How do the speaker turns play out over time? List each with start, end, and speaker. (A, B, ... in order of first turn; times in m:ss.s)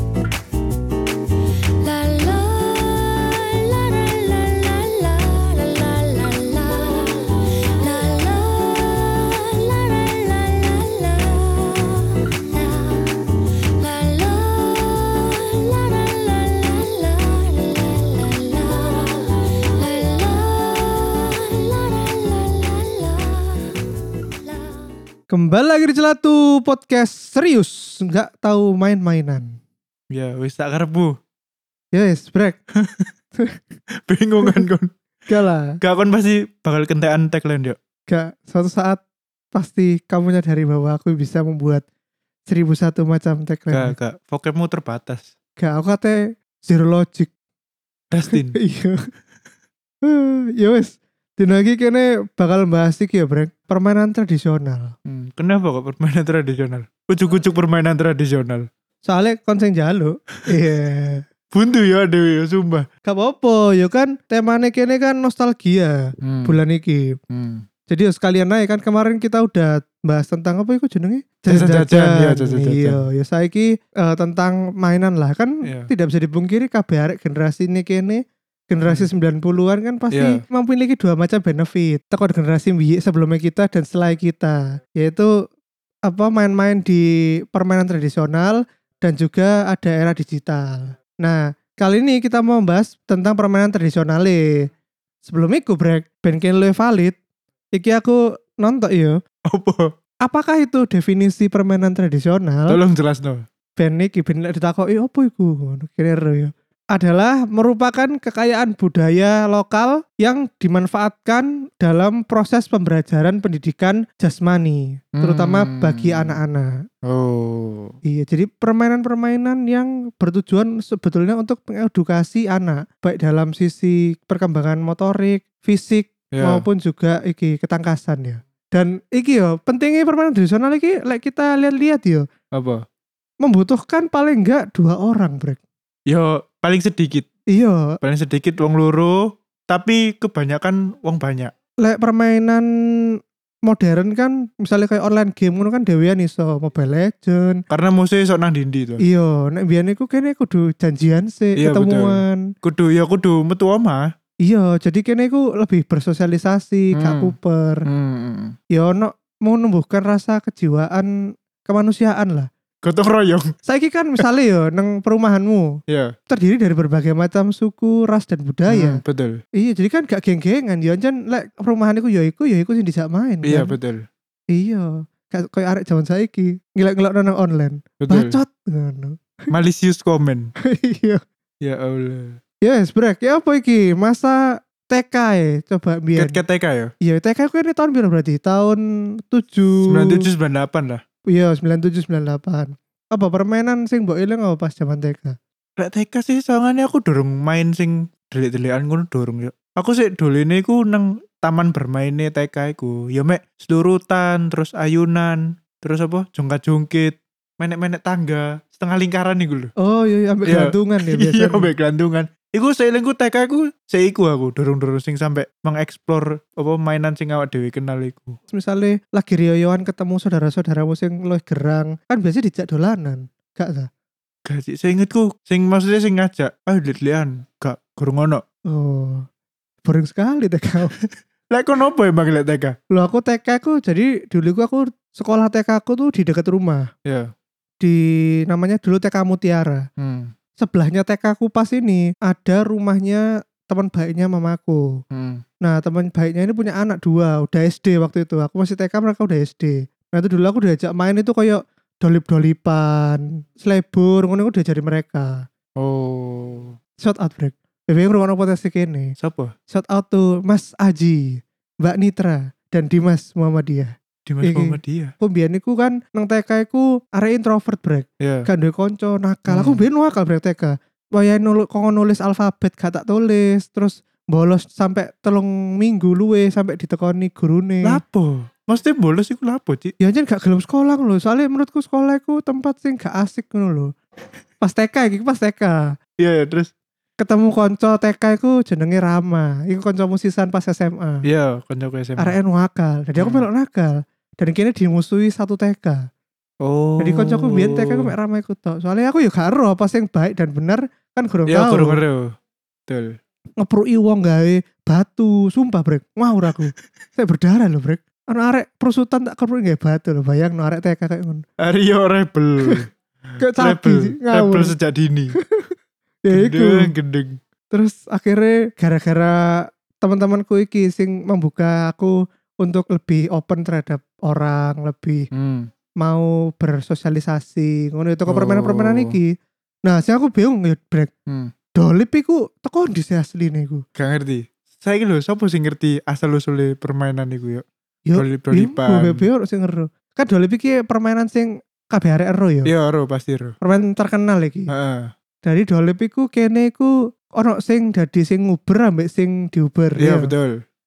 0:01.8-0:23.7 A
0:24.4-0:24.9 A
0:25.3-0:29.6 B
0:30.1-0:31.2 C
0:31.9-0:32.6 B
0:32.8-0:33.1 C
0:34.0-0:34.9 C
0:35.3-0:35.8 B
0:35.8-0:37.8 C
0:38.1-0:39.0 B
0:39.5-0:41.8 B
0:42.5-0:44.0 B
0:43.7-0:45.3 C
0:45.6-0:47.3 B
0:48.1-0:48.6 C
0:48.3-0:49.0 B
0:50.0-0:54.9 B
0:55.1-0:58.7 C
0:59.0-1:01.2 B
1:01.5-1:02.9 C
1:03.0-1:07.2 B
1:06.2-1:06.6 C
1:07.3-1:07.6 C
1:07.9-1:25.3 B
1:11.5-1:13.0 C
1:15.6-1:15.9 C
1:20.1-1:20.4 C
1:26.1-1:34.6 B
1:35.2-1:37.2 B
1:37.7-1:39.2 B
1:39.5-1:39.9 C
1:40.2-1:42.8 B
1:42.7-1:43.4 C
1:43.8-1:56.7 B
1:55.2-1:56.4 C
1:57.1-1:58.0 C
1:58.0-2:12.3 B
2:06.3-2:06.6 C
2:12.5-2:12.8 C
2:13.4-2:15.6 B
2:16.1-2:17.3 C
2:17.5-2:18.0 B
2:18.0-2:21.5 C
2:21.8-2:27.6 B
2:27.7-2:29.0 C
2:29.0-2:32.5 B
2:31.6-2:34.1 C
2:34.4-2:37.8 B
2:37.0-2:37.3 C
2:37.9-2:38.6 C
2:38.7-2:41.1 B
2:41.6-2:42.5 B
2:42.8-2:43.5 C
2:43.7-2:45.7 B
2:46.3-2:49.0 B
2:48.7-2:49.4 C
2:49.6-2:53.7 B
2:53.4-2:54.0 C
2:54.5-2:59.2 B
2:58.0-2:58.4 C
2:59.5-3:00.5 C
3:00.6-3:01.2 B
3:01.6-3:02.4 C
3:02.6-3:06.4 B
3:06.2-3:06.9 C
3:07.0-3:10.2 B
3:09.9-3:11.0 C
3:11.3-3:15.4 B
3:15.8-3:29.7 C
3:29.8-3:31.7 B
3:30.5-3:38.4 C
3:38.5-3:43.9 B
3:44.5-3:48.4 C
3:48.7-3:49.3 B
3:49.8-3:50.9 B
3:51.0-3:52.8 C
3:52.9-3:56.9 B
3:57.8-3:59.8 B
4:00.0-4:00.3 C
4:00.6-4:05.0 B
4:05.1-4:05.4 C
4:05.6-4:15.5 B
4:15.8-4:16.8 C
4:17.0-4:19.1 B
4:19.2-4:19.5 C
4:19.7-4:38.0 B
4:24.3-4:25.1 C
4:28.2-4:28.5 C
4:29.5-4:29.8 C
4:37.8-4:39.9 C
4:40.0-4:43.9 B
4:44.6-4:46.0 B
4:46.2-4:46.7 C
4:47.2-4:51.2 B
4:51.2-4:52.4 C
4:52.2-4:56.1 B
4:53.2-4:53.5 C
4:56.6-4:58.1 C
4:57.0-5:02.0 B
5:01.5-5:02.3 C
5:02.9-5:03.2 C
5:03.6-5:11.4 B
5:11.6-5:15.4 C
5:13.4-5:14.7 B
5:15.4-5:15.7 B
5:16.2-5:16.9 B
5:16.3-5:17.4 C
5:17.7-5:25.3 B
5:25.3-5:25.7 C
5:26.0-5:29.3 B
5:28.3-5:29.2 C
5:29.8-5:31.1 B
5:31.8-5:33.8 B
5:34.0-5:37.6 C
5:38.1-5:42.7 B
5:38.2-5:39.3 C
5:42.7-5:43.6 C
5:43.6-5:44.7 B
5:44.7-5:45.1 C
5:45.4-5:50.3 B
5:50.0-5:50.6 C